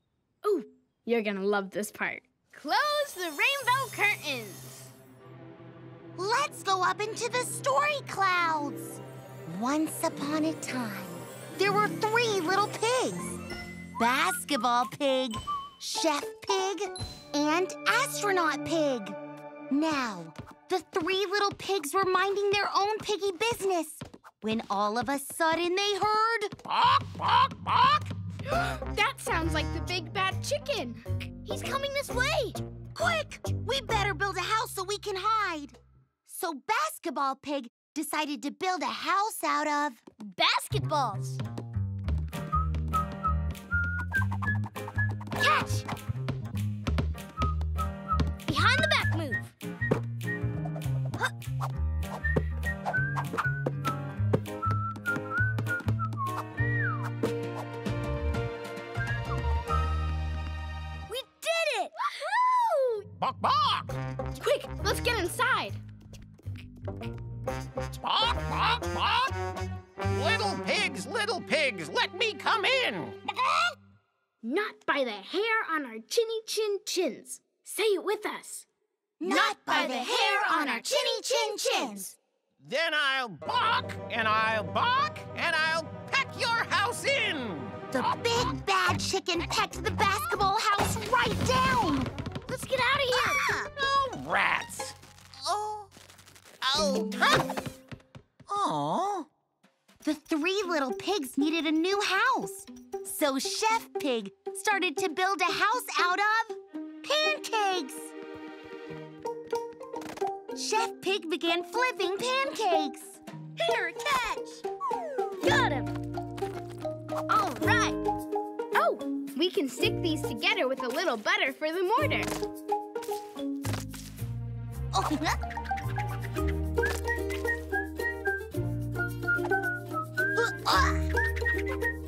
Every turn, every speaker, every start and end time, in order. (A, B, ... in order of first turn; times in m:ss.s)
0:00.4-0:04.9 A
0:06.2-0:13.4 B
0:14.0-0:19.2 B
0:19.7-0:26.5 B
0:26.6-0:28.1 C
0:28.5-0:32.6 A
0:33.0-0:40.0 B
0:40.2-0:41.4 A
0:45.4-0:45.8 A
0:48.5-0:49.5 A
1:01.1-1:03.1 A
1:01.3-1:01.9 B
1:03.2-1:04.0 C
1:04.4-1:05.8 A
1:07.9-1:09.4 C
1:10.0-1:13.2 C
1:14.4-1:18.7 A
1:19.2-1:22.2 B
1:19.2-1:22.1 A
1:22.6-1:28.1 C
1:27.9-1:32.1 B
1:32.5-1:33.4 A
1:33.1-1:33.7 B
1:33.8-1:35.9 C
1:36.6-1:37.6 C
1:38.5-1:39.3 C
1:40.0-1:48.1 B
1:50.6-1:53.2 B
1:53.6-1:54.4 A
1:53.8-1:54.4 B
1:55.4-1:55.8 A
1:55.4-1:55.8 B
1:57.3-1:58.0 A
1:58.8-2:02.3 A
2:04.9-2:05.4 B
2:10.4-2:11.1 B